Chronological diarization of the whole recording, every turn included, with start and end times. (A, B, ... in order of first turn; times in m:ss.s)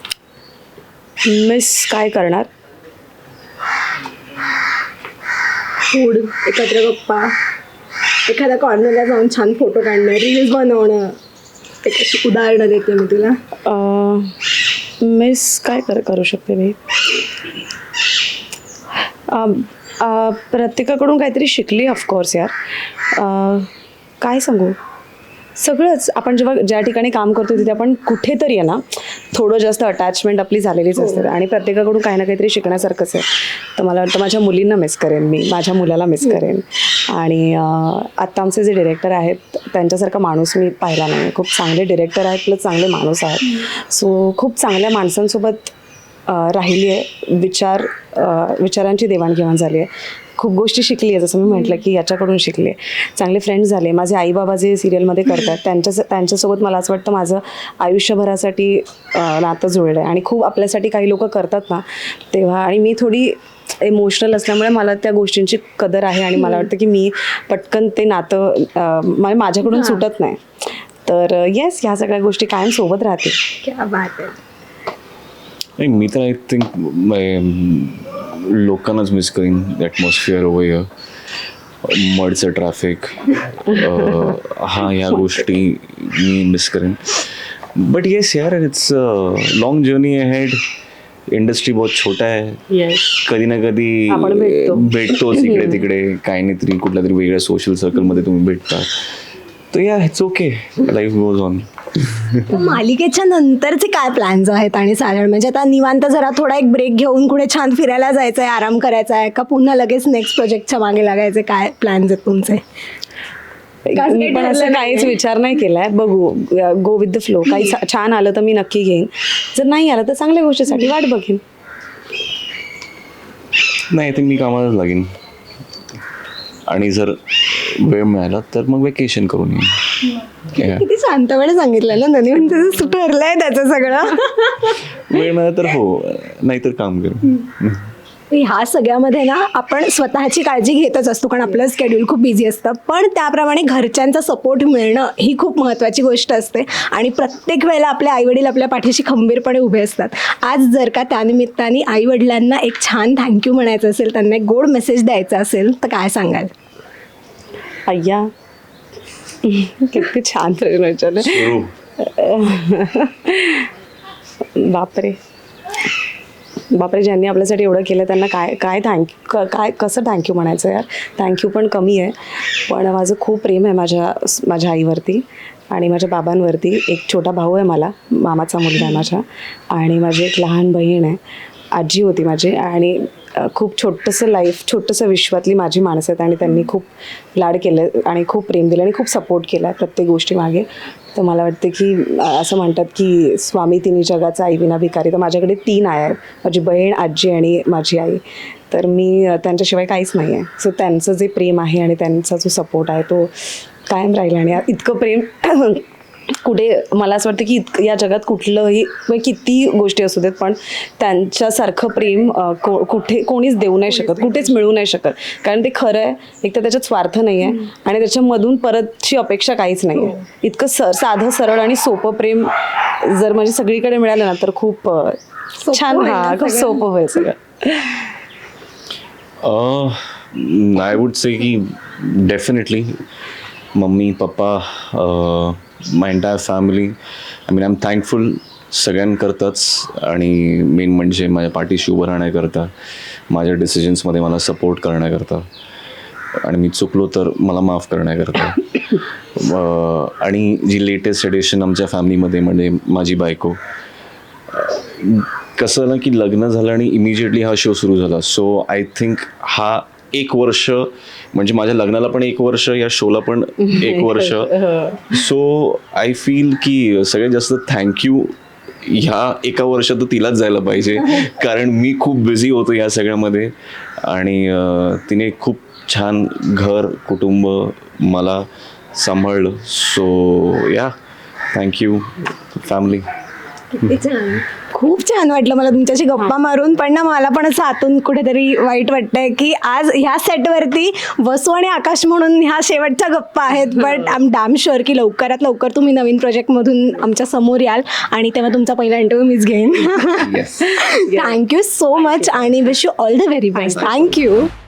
0:01.2-0:02.5 A
0:05.9-0:07.3 B
0:08.3-0:11.2 B
0:11.8-0:13.4 B
0:13.6-0:14.4 A
0:15.0-0:16.8 A
0:19.3-0:22.5 A
0:23.1-0:23.7 A
0:24.2-0:24.8 A
0:25.6-0:45.7 A
0:31.0-0:31.3 B
0:46.3-1:10.4 A
1:06.4-1:06.6 B
1:09.6-1:10.0 B
1:11.0-1:13.4 A
1:13.6-1:14.4 B
1:15.8-1:20.9 C
1:21.8-1:30.6 C
1:31.3-1:39.1 C
1:34.1-1:35.8 A
1:39.7-1:42.5 C
1:42.5-1:52.6 B
1:53.8-2:01.4 A
1:53.9-1:55.1 B
2:03.9-2:05.1 C
2:06.7-2:09.9 C
2:10.5-2:10.8 C
2:10.5-2:14.8 B
2:15.0-2:17.9 C
2:18.3-2:36.5 B
2:37.9-2:38.3 A
2:39.4-2:43.7 A
2:41.2-2:41.7 C
2:44.6-2:45.2 A
2:46.7-3:01.2 A
3:01.7-3:23.3 A
3:23.9-3:25.8 A
3:26.4-3:45.2 A
3:45.6-3:46.8 B
3:45.7-3:48.0 A
3:49.4-3:53.0 C
3:53.8-3:57.0 C
3:57.5-4:02.7 C
4:03.3-4:05.4 C
4:06.4-4:13.6 C
4:14.5-4:40.9 C
4:41.5-4:43.1 C
4:43.7-5:04.5 B
5:00.2-5:00.8 C
5:03.7-5:04.0 C